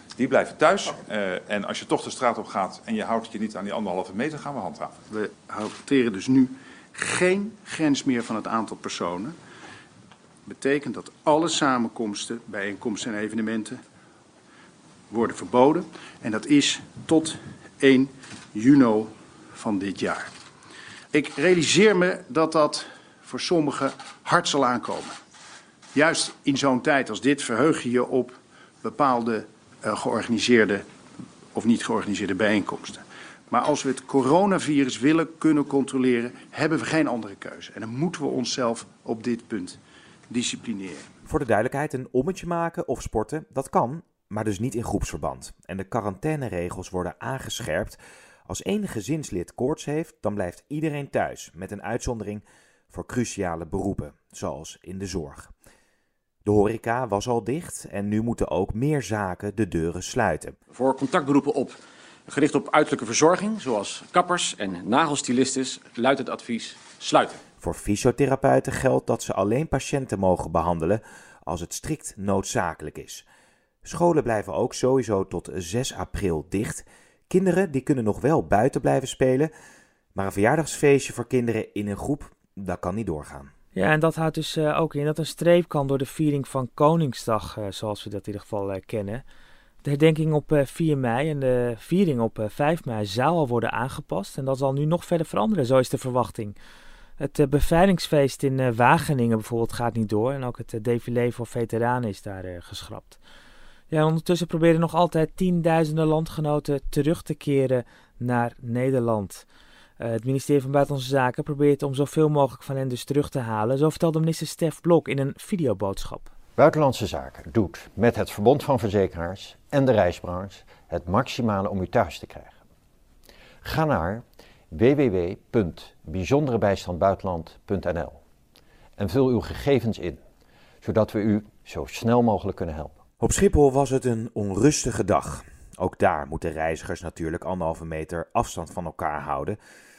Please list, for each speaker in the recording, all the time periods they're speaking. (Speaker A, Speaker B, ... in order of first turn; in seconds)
Speaker A: 0.2-4.9
Speaker B: 5.1-9.3, 10.4-13.8, 15.1-20.3, 21.1-25.1, 25.9-30.8, 31.5-39.8, 40.3-41.0
Speaker C: 41.3-55.5, 56.4-60.5, 67.6-73.2, 73.8-79.5, 80.1-83.5, 133.2-139.6
Speaker D: 60.7-67.4
Speaker E: 83.7-89.2, 89.8-96.5, 97.2-103.2, 103.9-109.4, 110.0-116.3
Speaker F: 116.5-122.6, 123.6-128.2, 129.0-130.2, 130.8-133.0